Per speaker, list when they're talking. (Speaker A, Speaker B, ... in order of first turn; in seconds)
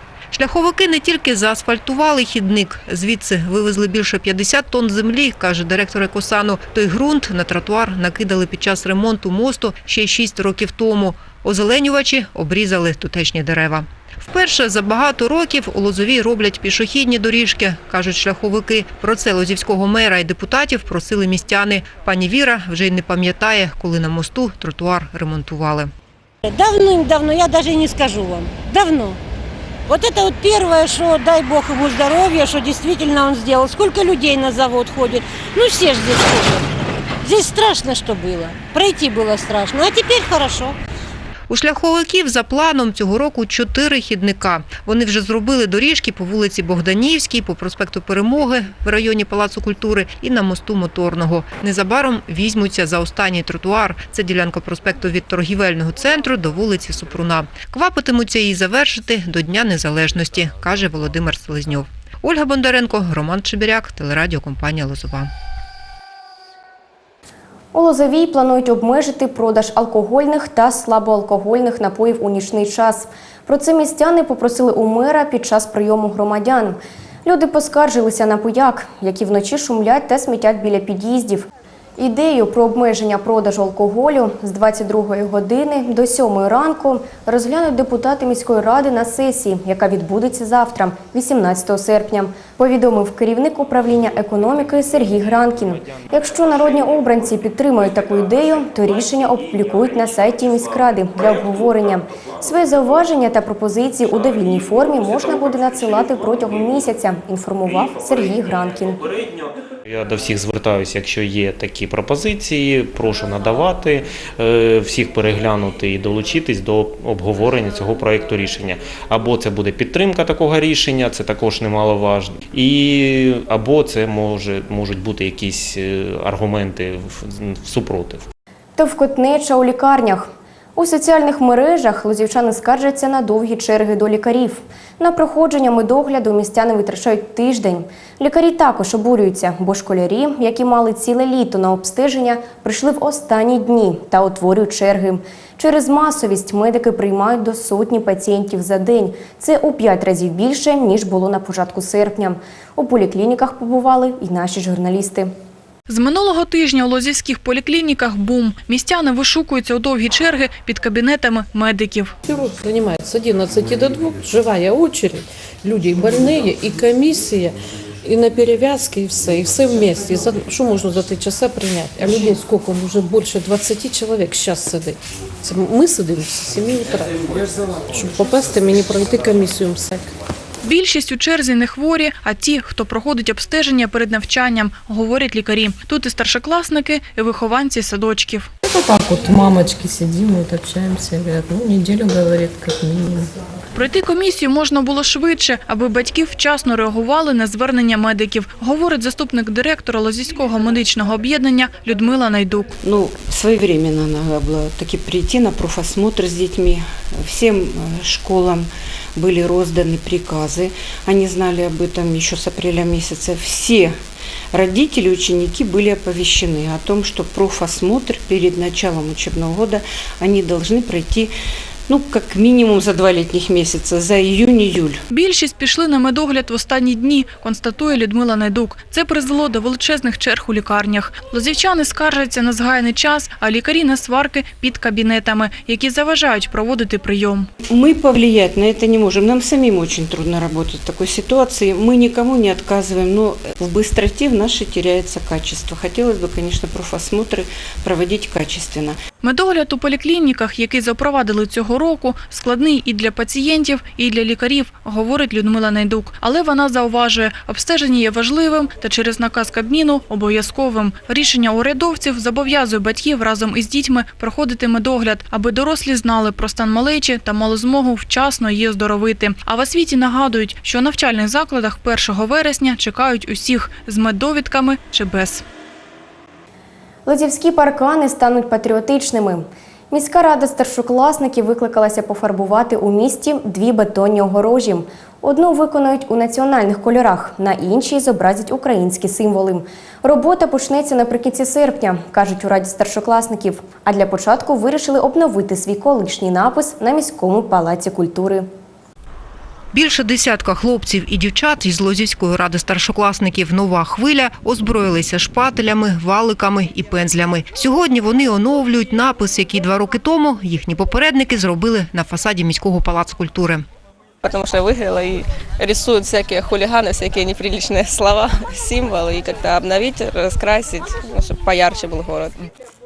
Speaker A: 0.3-25.9, 41.5-65.3, 299.7-313.6
Speaker B: 26.4-29.2, 29.9-40.8
Speaker C: 67.7-109.0, 128.8-155.3, 277.1-298.4
Speaker D: 109.9-128.3
Speaker E: 155.9-162.1, 180.6-188.5, 193.7-202.7, 225.1-237.5, 249.2-275.4
Speaker F: 162.2-180.1, 188.6-193.3
Speaker G: 202.9-208.6, 209.2-213.9, 214.6-221.2, 221.9-224.9, 237.8-248.9
Speaker H: 314.2-322.5